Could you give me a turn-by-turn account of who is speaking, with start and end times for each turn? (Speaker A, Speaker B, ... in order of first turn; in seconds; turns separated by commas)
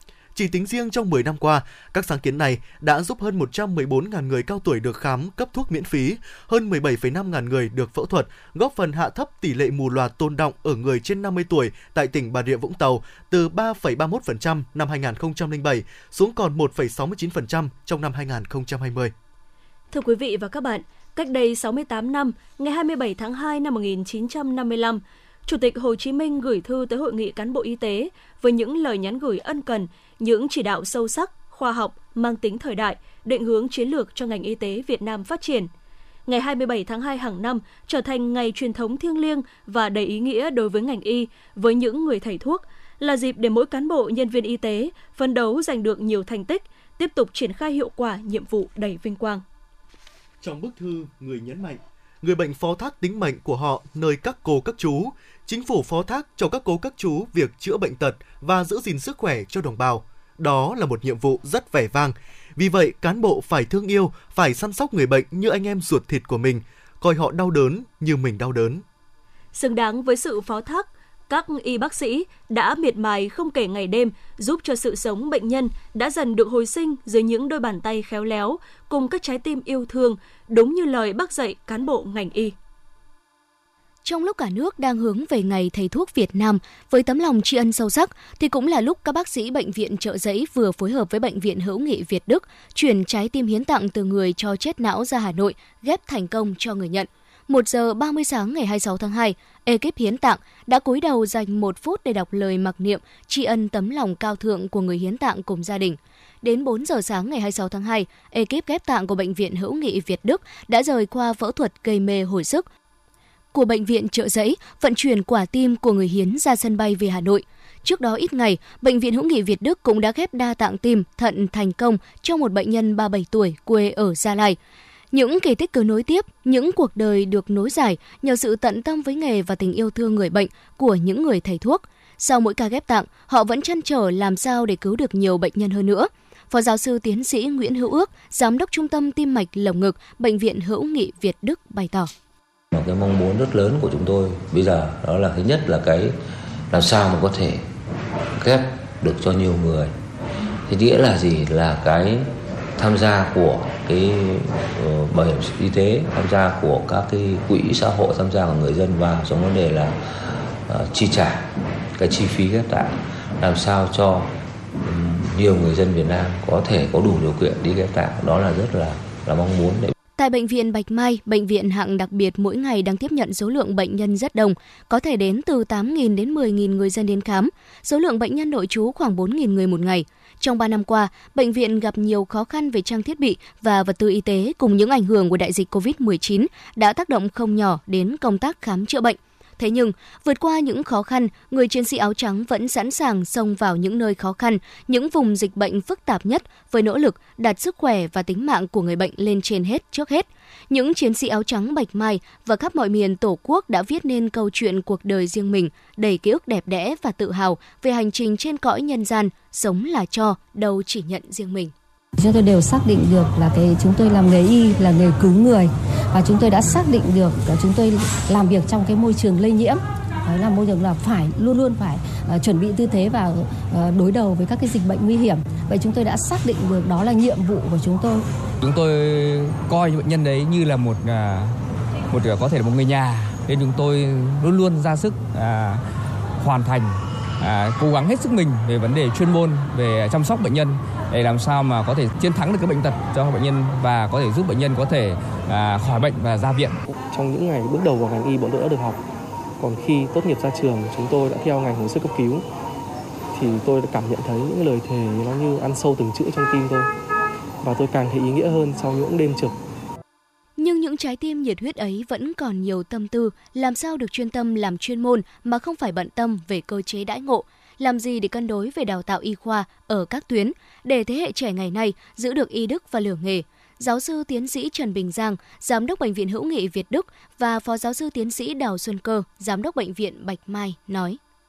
Speaker A: 0.3-19.1, Speaker B: 19.9-35.7, Speaker B: 36.3-49.4, Speaker A: 50.4-68.8, Speaker B: 69.5-82.5, Speaker C: 84.0-112.6, Speaker C: 113.5-124.6, Speaker C: 125.1-142.1, Speaker D: 142.7-146.2, Speaker D: 146.7-147.7, Speaker D: 148.3-149.9, Speaker D: 150.7-169.9, Speaker C: 170.2-211.7, Speaker E: 212.2-228.2, Speaker F: 228.6-231.5, Speaker F: 232.1-235.8, Speaker F: 236.4-246.8, Speaker G: 246.9-249.0, Speaker G: 249.6-252.4, Speaker G: 253.3-256.9, Speaker G: 257.6-259.5, Speaker C: 260.6-281.2